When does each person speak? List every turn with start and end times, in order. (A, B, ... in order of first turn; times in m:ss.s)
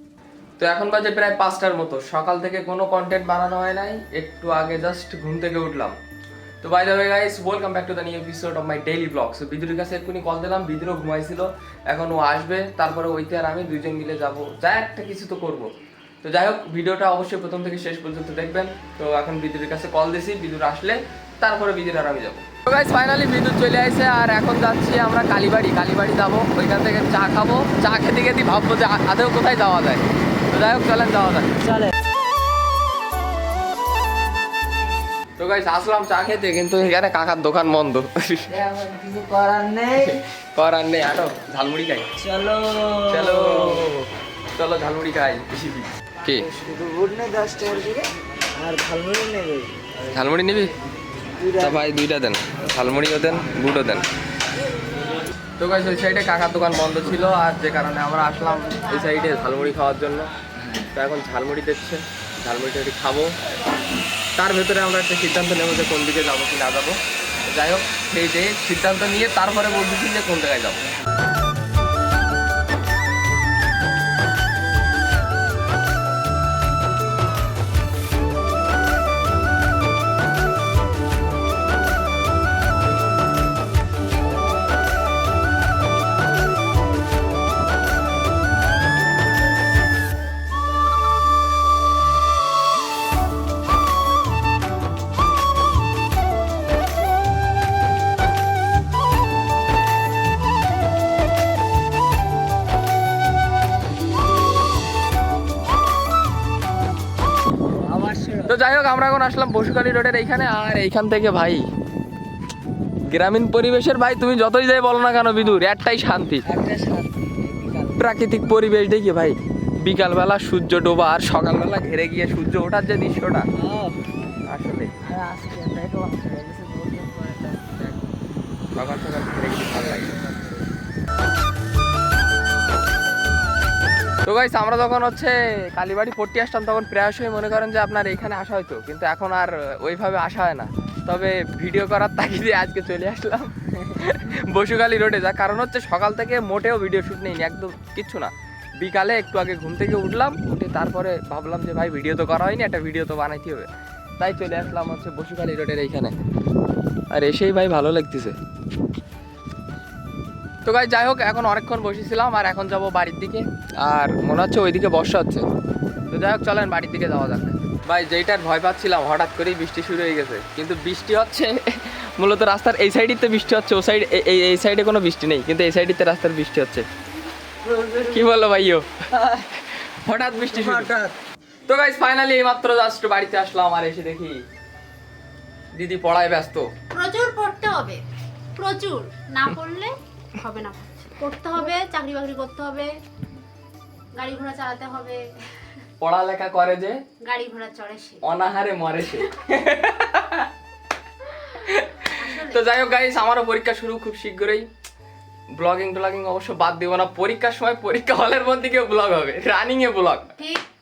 0:00.6-0:06.0 A
0:06.6-0:15.7 A
0:16.2-0:31.6 A
0:35.4-0:38.5 A
0:38.5-0:40.2 B
0:40.0-0:42.1 A
0:42.2-0:44.0 B
0:43.1-0:46.5 A
0:46.4-0:49.8 B
0:50.1-0:50.7 A
0:51.4-0:51.8 B
0:51.5-0:54.0 A
0:55.6-1:03.4 A
1:04.4-1:10.8 A
1:47.7-1:48.6 B
1:48.4-1:51.6 A
1:53.1-1:56.5 A
1:56.5-1:58.1 B
1:58.0-2:03.5 A
2:03.6-2:04.1 B
2:04.4-2:05.0 A
2:05.0-2:08.1 B
2:08.8-2:10.2 A
2:10.0-2:10.7 B
2:14.2-2:36.1 A
2:37.1-2:38.4 A
2:40.6-2:45.5 A
2:46.1-2:56.9 A
2:57.7-2:58.2 B
2:58.0-3:00.9 A
3:00.5-3:01.2 B
3:01.7-3:04.4 A
3:05.8-3:06.7 A
3:06.9-3:08.0 C
3:08.6-3:12.9 C
3:14.2-3:15.2 C
3:16.0-3:17.0 A
3:17.2-3:18.2 C
3:18.2-3:20.5 A
3:21.5-3:24.7 A
3:22.1-3:22.6 C
3:25.6-3:30.3 A
3:30.4-3:30.6 C